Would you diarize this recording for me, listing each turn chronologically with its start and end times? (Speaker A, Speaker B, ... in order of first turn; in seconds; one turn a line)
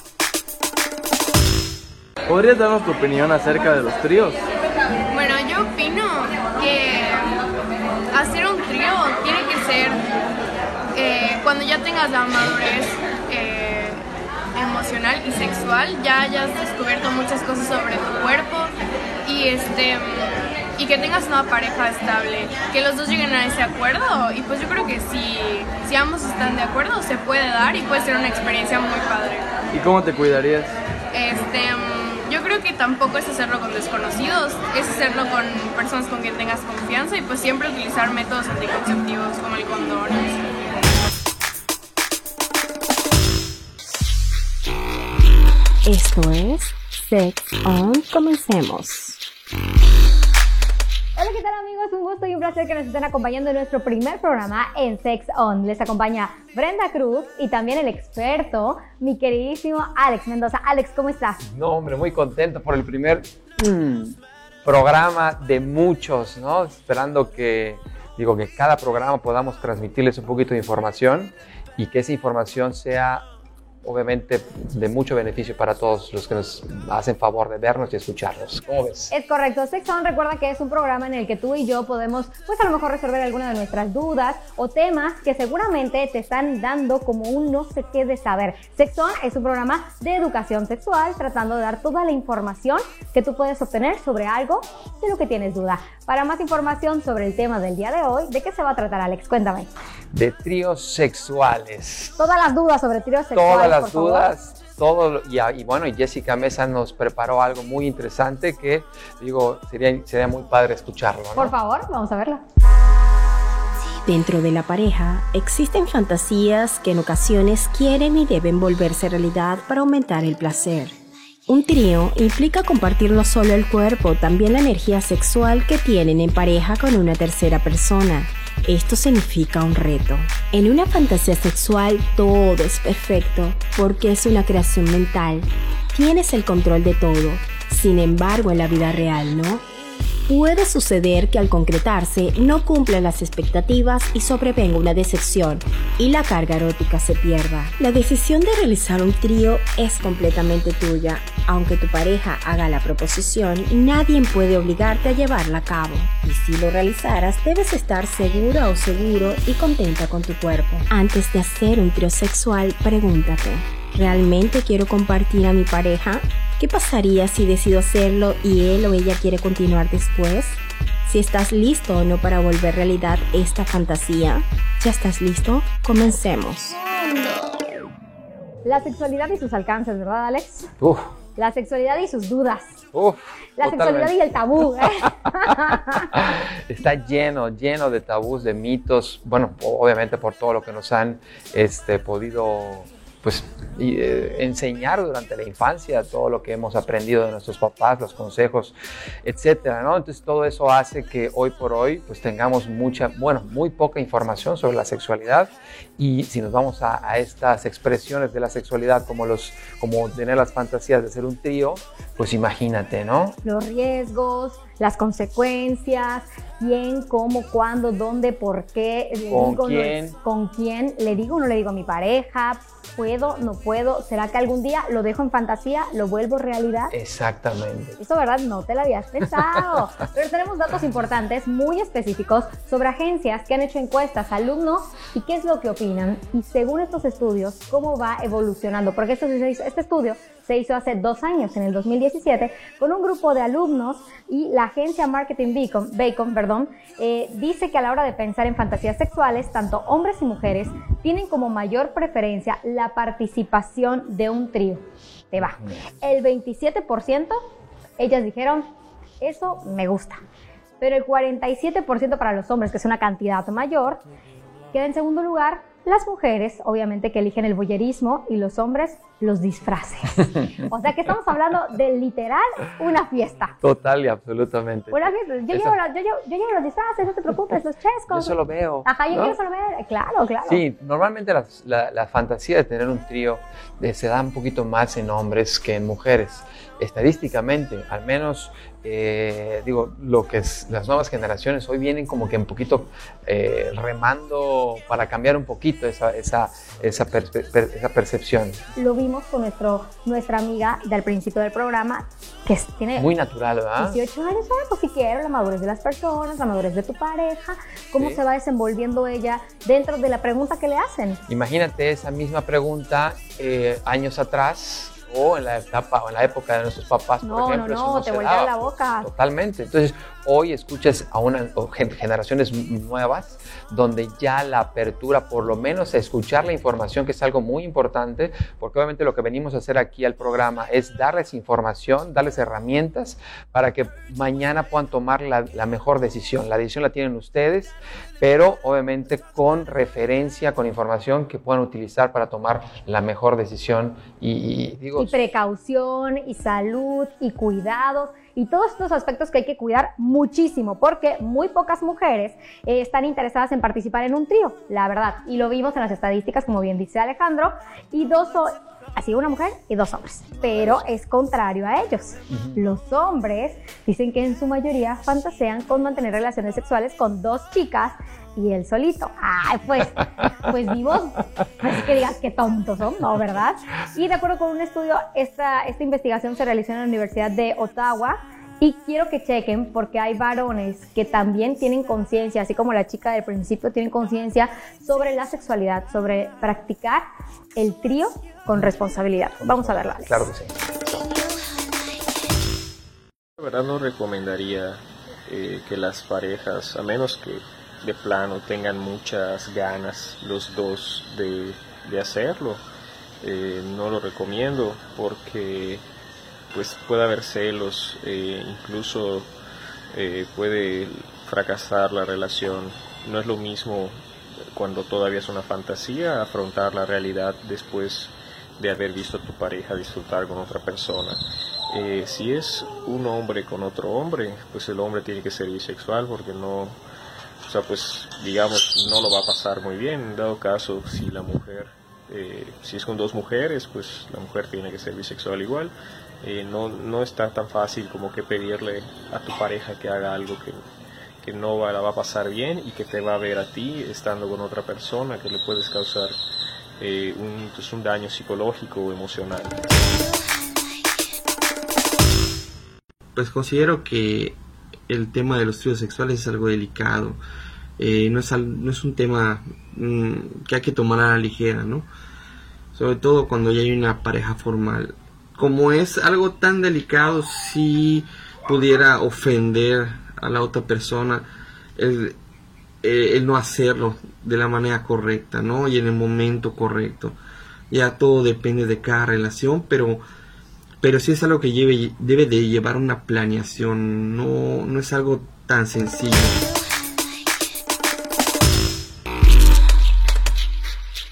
Speaker A: 2.3-4.4
Speaker B: 5.1-7.4
Speaker B: 8.1-10.1
Speaker B: 10.9-14.0
Speaker B: 14.5-18.7
Speaker B: 19.2-29.5
Speaker A: 29.7-30.8
Speaker B: 31.1-40.4
Speaker C: 45.9-49.2
Speaker D: 51.2-61.4
Speaker E: 61.4-73.3
Speaker E: 73.8-79.1
Speaker D: 79.1-99.7
Speaker E: 100.1-102.3
Speaker D: 102.2-104.3
Speaker E: 103.3-111.5
Speaker D: 111.4-112.4
Speaker C: 114.0-121.0
Speaker C: 121.5-139.6
Speaker C: 140.3-176.8
Speaker D: 178.7-180.7
Speaker E: 180.8-181.1
Speaker D: 181.4-182.8
Speaker E: 182.9-184.2
Speaker D: 183.6-186.2
Speaker E: 184.8-213.4
Speaker D: 213.4-226.9
Speaker E: 219.3-220.2
Speaker E: 226.9-228.0
Speaker D: 228.0-257.4
Speaker E: 255.4-255.7
Speaker D: 258.0-258.7
Speaker D: 259.2-260.2
Speaker D: 260.8-264.0
Speaker D: 264.7-273.6
Speaker E: 273.6-275.8
Speaker D: 274.9-280.6
Speaker E: 278.1-279.4
Speaker E: 280.5-298.7
Speaker D: 298.8-303.1
Speaker E: 303.0-304.0
Speaker D: 303.8-311.2
Speaker E: 311.3-345.1
Speaker D: 317.2-319.1
Speaker D: 345.0-387.1
Speaker E: 362.3-362.6
Speaker D: 387.6-390.2
Speaker E: 389.4-391.1
Speaker F: 393.4-402.6
Speaker F: 403.2-405.8
Speaker F: 406.5-409.3
Speaker F: 409.9-414.0
Speaker F: 414.5-426.8
Speaker F: 427.4-440.6
Speaker F: 441.2-446.1
Speaker F: 446.8-449.7
Speaker G: 453.1-457.2
Speaker G: 457.8-461.9
Speaker G: 462.7-472.2
Speaker G: 472.8-477.2
Speaker G: 477.7-480.0
Speaker G: 480.8-486.5